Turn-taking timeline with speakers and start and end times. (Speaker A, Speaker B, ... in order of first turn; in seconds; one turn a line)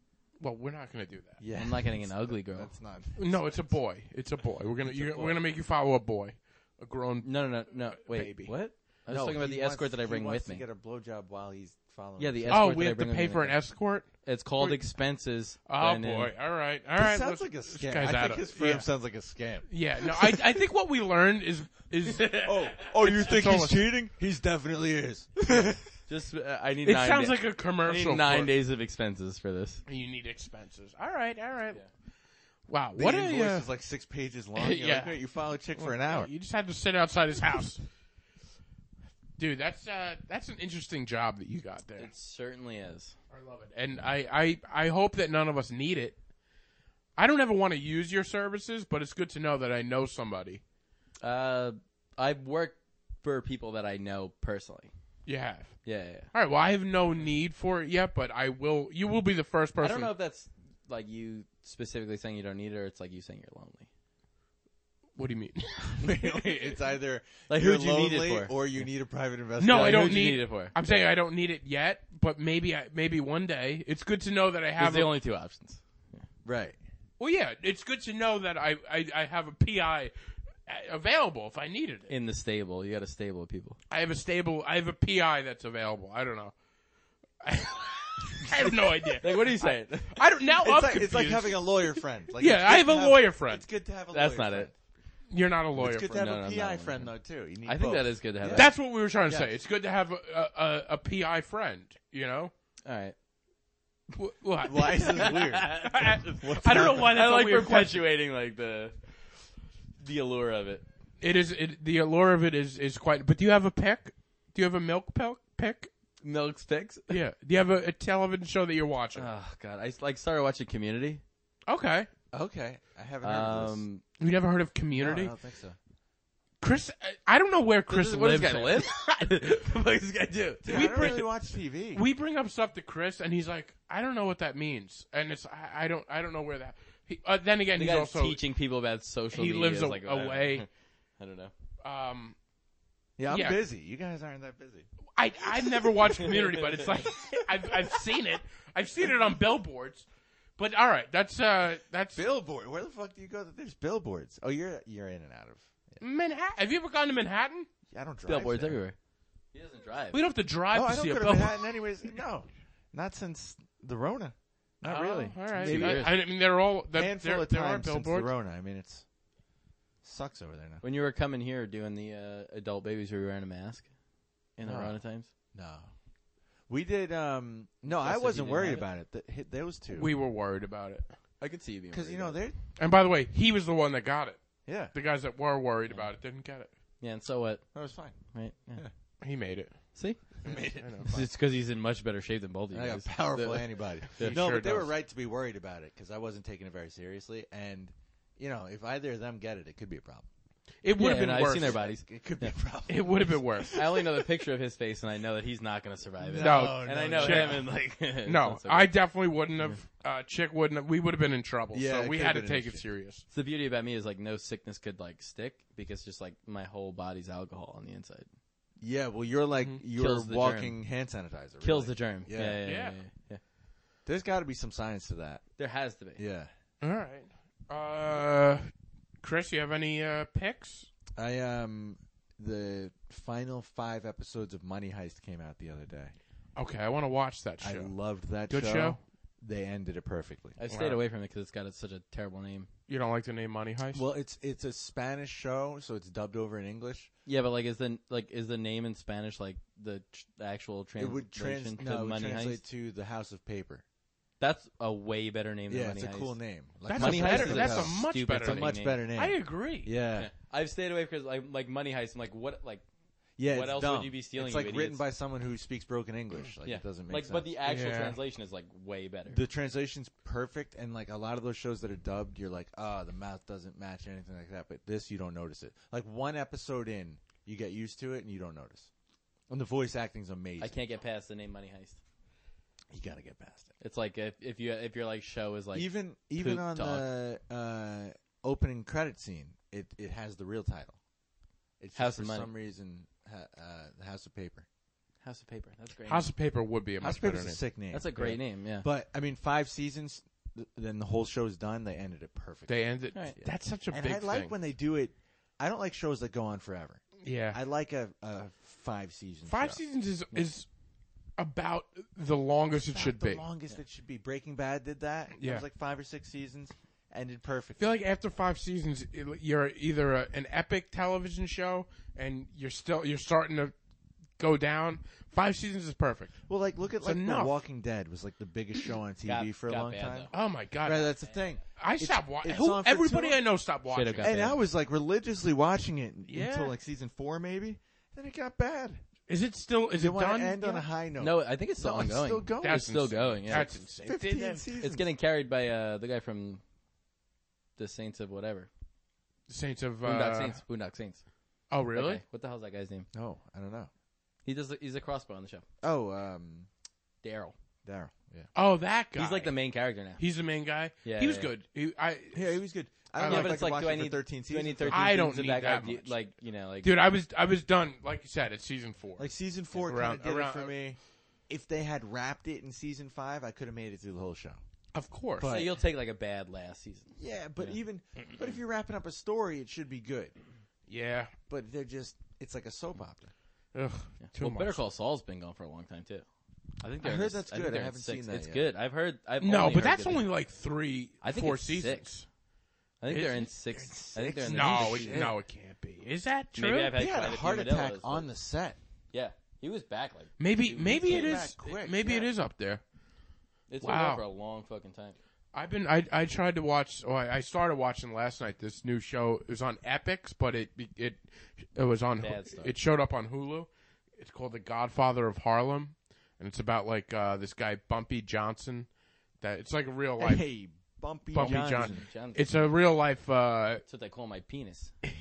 Speaker A: 0.4-1.4
Speaker B: 1.4-3.8
Speaker C: 1.5-2.7
Speaker A: 3.2-8.5
Speaker C: 5.0-5.3
Speaker C: 7.2-10.7
Speaker B: 9.1-12.7
Speaker C: 12.2-13.6
Speaker A: 12.5-14.9
Speaker C: 14.2-16.3
Speaker A: 15.7-18.9
Speaker B: 17.0-20.5
Speaker A: 19.7-23.9
Speaker C: 22.1-22.5
Speaker B: 22.4-25.8
Speaker C: 26.1-29.8
Speaker A: 26.9-28.5
Speaker A: 29.9-31.8
Speaker A: 32.7-33.7
Speaker B: 33.0-36.3
Speaker A: 34.6-35.2
Speaker A: 35.8-37.9
Speaker A: 39.4-42.1
Speaker C: 42.0-43.2
Speaker A: 43.3-46.2
Speaker A: 47.2-50.6
Speaker C: 51.2-54.9
Speaker A: 55.3-55.8
Speaker C: 55.8-56.3
Speaker A: 56.3-60.1
Speaker C: 59.8-63.9
Speaker A: 65.2-66.6
Speaker B: 65.9-70.4
Speaker C: 67.5-68.6
Speaker A: 69.6-75.1
Speaker C: 69.7-70.8
Speaker C: 74.8-76.2
Speaker B: 76.4-76.8
Speaker A: 77.2-80.1
Speaker A: 80.7-82.1
Speaker C: 82.1-83.8
Speaker A: 83.9-86.5
Speaker A: 87.4-91.7
Speaker C: 88.6-90.2
Speaker B: 90.6-94.8
Speaker A: 92.4-93.6
Speaker C: 94.1-94.7
Speaker A: 95.3-96.2
Speaker B: 95.8-99.5
Speaker C: 96.1-97.1
Speaker C: 97.7-98.7
Speaker A: 98.5-102.5
Speaker C: 102.8-103.2
Speaker A: 104.1-108.0
Speaker B: 104.6-105.9
Speaker C: 105.0-109.0
Speaker B: 106.4-107.1
Speaker C: 110.0-110.8
Speaker A: 111.2-115.9
Speaker C: 116.2-117.2
Speaker A: 117.1-119.3
Speaker C: 119.2-121.2
Speaker A: 121.7-122.1
Speaker B: 122.3-123.8
Speaker C: 123.2-124.0
Speaker A: 124.2-125.3
Speaker B: 125.0-125.8
Speaker A: 126.6-128.9
Speaker C: 127.9-131.2
Speaker B: 130.6-132.1
Speaker A: 130.7-131.3
Speaker A: 131.9-138.4
Speaker C: 137.8-140.7
Speaker A: 139.3-140.7
Speaker C: 141.2-141.5
Speaker A: 141.8-142.3
Speaker B: 143.2-144.9
Speaker A: 143.3-143.6
Speaker A: 145.2-150.1
Speaker C: 146.3-146.8
Speaker A: 150.6-152.2
Speaker B: 152.2-156.0
Speaker A: 156.0-157.7
Speaker B: 157.9-158.8
Speaker C: 158.3-159.0
Speaker C: 159.5-160.2
Speaker A: 160.1-161.8
Speaker B: 160.7-166.2
Speaker A: 164.8-168.3
Speaker C: 165.6-166.2
Speaker B: 166.9-169.0
Speaker B: 170.0-170.8
Speaker C: 170.8-173.9
Speaker C: 174.6-175.3
Speaker B: 174.6-175.0
Speaker B: 175.5-175.9
Speaker B: 176.7-180.1
Speaker C: 177.9-178.9
Speaker A: 179.9-181.2
Speaker C: 181.4-182.4
Speaker B: 181.9-182.6
Speaker A: 182.8-186.7
Speaker B: 184.7-184.9
Speaker C: 187.0-187.7
Speaker B: 187.7-188.2
Speaker C: 188.3-188.8
Speaker A: 189.2-191.1
Speaker C: 189.9-190.4
Speaker B: 190.4-191.3
Speaker C: 191.0-194.4
Speaker B: 192.7-200.3
Speaker A: 194.2-194.9
Speaker A: 200.8-201.8
Speaker C: 201.0-202.5
Speaker B: 201.6-203.8
Speaker A: 202.9-204.0
Speaker C: 203.7-208.9
Speaker B: 206.2-207.7
Speaker A: 206.4-213.2
Speaker B: 211.7-212.8
Speaker C: 213.3-218.3
Speaker B: 218.8-222.6
Speaker C: 219.9-220.8
Speaker C: 221.6-223.4
Speaker A: 222.6-223.0
Speaker B: 224.1-225.4
Speaker C: 225.6-226.2
Speaker B: 226.2-226.5
Speaker A: 226.8-230.9
Speaker B: 231.2-236.1
Speaker A: 236.6-237.9
Speaker B: 237.6-240.6
Speaker A: 238.5-239.0
Speaker C: 240.6-242.7
Speaker A: 240.7-241.0
Speaker A: 242.9-244.0
Speaker B: 243.9-247.1
Speaker C: 247.3-252.6
Speaker B: 251.0-253.8
Speaker C: 254.4-256.4
Speaker B: 255.7-260.3
Speaker A: 256.9-259.9
Speaker C: 257.0-259.0
Speaker C: 260.2-262.8
Speaker B: 263.4-267.5
Speaker C: 263.5-265.0
Speaker C: 266.6-269.4
Speaker A: 267.6-268.2
Speaker B: 269.3-278.9
Speaker B: 279.5-280.8
Speaker C: 280.6-282.0
Speaker B: 282.9-283.7
Speaker C: 283.8-287.1
Speaker B: 285.7-291.0
Speaker B: 291.8-294.7
Speaker C: 291.9-292.5
Speaker C: 295.2-296.3
Speaker A: 296.1-297.6
Speaker B: 297.0-302.8
Speaker C: 297.9-298.9
Speaker A: 302.7-304.5
Speaker B: 303.4-309.8
Speaker A: 307.2-307.6
Speaker A: 309.5-310.7
Speaker A: 311.4-313.4
Speaker B: 312.9-317.8
Speaker A: 315.4-315.6
Speaker A: 317.8-323.7
Speaker A: 324.4-326.4
Speaker B: 326.5-333.4
Speaker A: 327.0-327.6
Speaker C: 329.2-330.3
Speaker A: 330.3-331.2
Speaker C: 331.3-331.6
Speaker A: 331.8-334.3
Speaker C: 333.9-334.6
Speaker B: 334.2-339.0
Speaker A: 336.3-336.8
Speaker A: 339.3-340.9
Speaker B: 339.9-345.1
Speaker C: 341.2-343.7
Speaker A: 342.6-344.6
Speaker C: 344.8-346.6
Speaker C: 347.8-348.7
Speaker A: 349.5-350.6
Speaker C: 350.0-351.2
Speaker A: 351.7-352.2
Speaker C: 351.9-353.1
Speaker B: 353.1-353.9
Speaker C: 354.4-355.7
Speaker B: 355.8-356.7
Speaker C: 357.2-357.6
Speaker B: 357.9-358.5
Speaker A: 358.6-359.5
Speaker C: 359.2-360.2
Speaker A: 360.2-362.6
Speaker C: 361.0-361.5
Speaker B: 362.3-365.1
Speaker A: 363.2-363.6
Speaker C: 363.2-366.9
Speaker A: 364.9-366.2
Speaker A: 366.8-369.3
Speaker B: 369.2-374.6
Speaker A: 369.8-370.8
Speaker A: 374.9-375.5
Speaker B: 375.4-375.8
Speaker C: 375.4-377.8
Speaker B: 377.2-380.4
Speaker A: 380.9-381.3
Speaker B: 381.5-383.3
Speaker A: 383.7-384.8
Speaker C: 384.2-386.2
Speaker C: 386.8-390.3
Speaker B: 387.0-388.7
Speaker A: 389.4-392.3
Speaker C: 391.2-392.2
Speaker C: 393.0-395.2
Speaker A: 393.1-393.5
Speaker B: 393.8-395.4
Speaker A: 394.4-396.9
Speaker C: 396.6-398.3
Speaker B: 397.0-398.8
Speaker C: 399.1-401.5
Speaker A: 400.4-402.8
Speaker B: 400.8-402.3
Speaker C: 403.7-405.2
Speaker A: 403.8-404.2
Speaker A: 405.5-418.9
Speaker C: 412.2-412.7
Speaker A: 419.4-420.4
Speaker B: 420.2-422.0
Speaker A: 421.3-423.8
Speaker C: 421.4-422.4
Speaker C: 423.9-424.9